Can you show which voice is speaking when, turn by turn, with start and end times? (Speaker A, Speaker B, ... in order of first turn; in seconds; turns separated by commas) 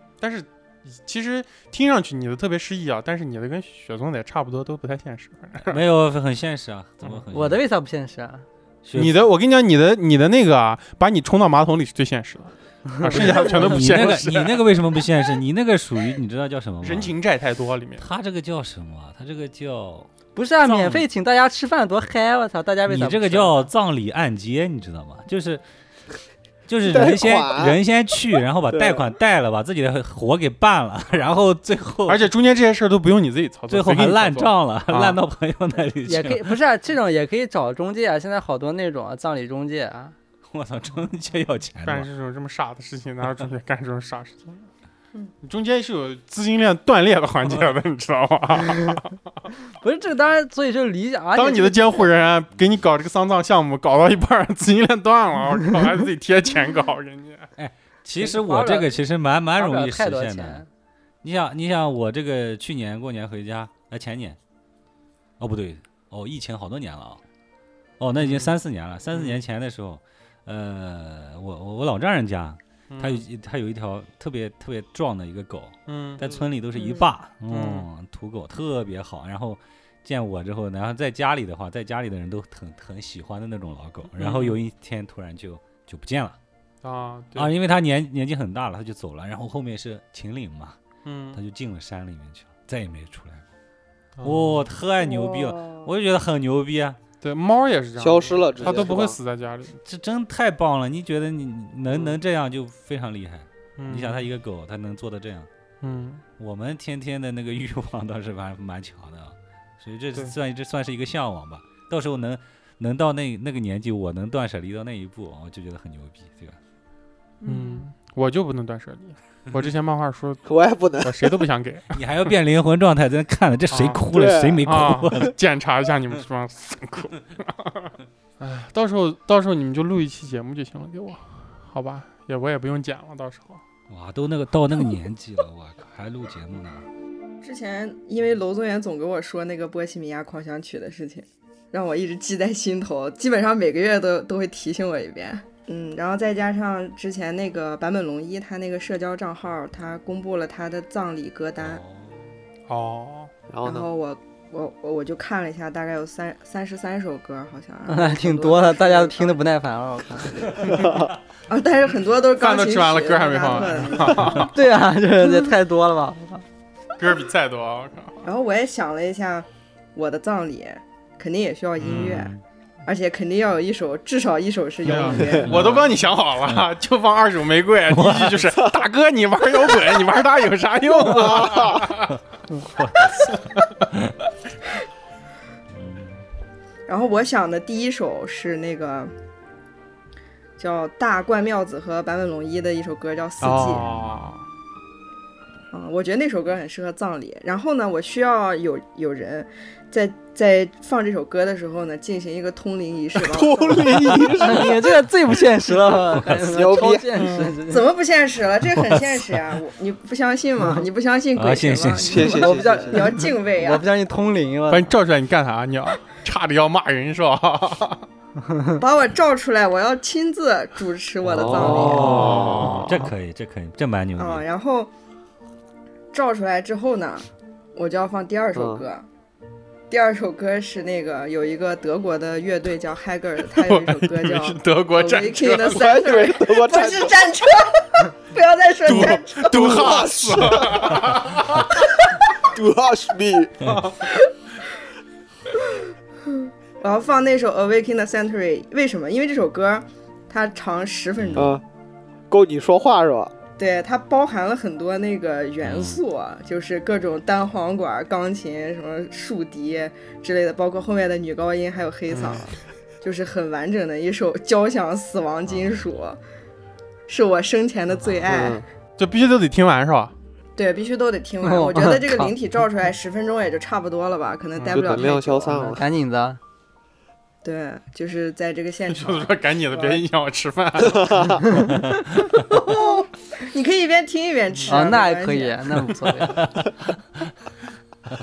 Speaker A: 0.2-5.8, Speaker B: 5.6-7.6, Speaker C: 7.3-8.4, Speaker B: 8.8-9.2, Speaker A: 8.9-14.6, Speaker C: 13.0-13.3, Speaker B: 13.1-17.1, Speaker A: 16.8-18.1, Speaker B: 18.0-20.1, Speaker C: 20.3-23.7, Speaker B: 20.6-21.0, Speaker B: 22.9-25.6, Speaker B: 26.7-32.3, Speaker D: 26.8-27.8, Speaker D: 28.7-29.0, Speaker A: 32.1-35.2, Speaker B: 33.7-36.5, Speaker C: 36.0-40.1, Speaker B: 40.5-42.1, Speaker A: 41.8-44.7, Speaker A: 45.4-49.2, Speaker C: 49.8-52.1, Speaker A: 51.3-57.5, Speaker B: 57.6-60.6, Speaker C: 58.2-58.9, Speaker C: 59.5-60.7, Speaker B: 61.2-64.4, Speaker B: 65.4-67.2, Speaker B: 68.0-86.4, Speaker A: 68.2-68.5, Speaker A: 69.1-69.4, Speaker A: 72.9-73.2, Speaker A: 75.9-76.2, Speaker E: 76.7-77.1, Speaker A: 77.5-77.9, Speaker A: 84.2-84.6, Speaker A: 86.8-87.5, Speaker B: 87.3-90.8, Speaker A: 91.0-91.4, Speaker B: 91.3-93.5, Speaker A: 94.2-94.7, Speaker B: 94.2-97.0, Speaker E: 95.0-95.9, Speaker A: 97.2-99.8, Speaker D: 98.0-99.2, Speaker B: 98.6-98.9, Speaker B: 99.8-105.5, Speaker A: 101.9-102.2, Speaker A: 103.8-104.3, Speaker A: 105.8-106.2, Speaker B: 106.4-116.6, Speaker A: 117.4-120.5, Speaker C: 117.5-117.7, Speaker D: 120.5-121.4, Speaker A: 121.0-122.0, Speaker B: 121.9-125.3, Speaker A: 123.7-124.0, Speaker D: 124.1-124.7, Speaker A: 124.6-133.6, Speaker B: 133.9-136.8, Speaker E: 137.4-151.8, Speaker B: 151.6-152.2, Speaker A: 152.7-153.3, Speaker D: 153.5-153.9, Speaker E: 153.6-159.4, Speaker C: 157.9-160.7, Speaker E: 160.6-164.5, Speaker D: 160.7-161.1, Speaker A: 162.3-164.5, Speaker C: 164.4-166.4, Speaker A: 167.0-168.2, Speaker E: 168.2-172.3, Speaker A: 171.8-172.2, Speaker B: 171.8-172.4, Speaker E: 172.8-175.7, Speaker A: 174.8-182.2, Speaker B: 174.9-175.9, Speaker B: 177.9-178.5, Speaker D: 181.0-181.9, Speaker B: 182.7-183.4, Speaker A: 183.0-183.9, Speaker B: 185.7-186.2, Speaker E: 186.9-189.1, Speaker E: 190.6-193.8, Speaker A: 193.4-194.4, Speaker B: 193.4-194.1, Speaker E: 195.7-204.6, Speaker D: 203.1-204.8, Speaker C: 204.4-207.8, Speaker B: 206.1-206.5, Speaker D: 206.5-207.1, Speaker E: 207.2-213.8, Speaker B: 208.7-209.4, Speaker B: 211.3-212.4, Speaker D: 212.0-213.1, Speaker C: 212.2-214.9, Speaker A: 214.7-218.0, Speaker C: 218.4-218.8, Speaker E: 218.8-222.4, Speaker D: 221.2-222.8, Speaker B: 221.4-224.4, Speaker A: 221.9-223.1, Speaker E: 224.2-224.9, Speaker E: 226.1-229.1, Speaker D: 228.5-228.8, Speaker E: 229.9-240.0, Speaker A: 233.6-235.8, Speaker D: 235.7-237.2, Speaker A: 238.8-241.7, Speaker D: 238.9-241.1, Speaker D: 242.4-243.7, Speaker A: 243.6-244.1, Speaker E: 244.1-244.3, Speaker E: 245.5-251.6, Speaker B: 251.2-251.5, Speaker D: 251.3-251.6, Speaker D: 252.3-253.3, Speaker E: 253.6-266.2, Speaker B: 255.6-256.0, Speaker A: 262.1-262.5, Speaker E: 267.1-268.6, Speaker D: 268.3-268.6, Speaker A: 269.0-270.1, Speaker E: 270.6-275.7, Speaker C: 271.4-272.3, Speaker A: 274.6-275.0, Speaker D: 274.7-275.8, Speaker C: 275.5-276.4, Speaker E: 277.4-280.0, Speaker A: 278.9-281.7, Speaker D: 280.9-281.4, Speaker E: 282.0-285.9, Speaker A: 284.5-284.9, Speaker C: 284.7-286.5, Speaker B: 286.4-286.7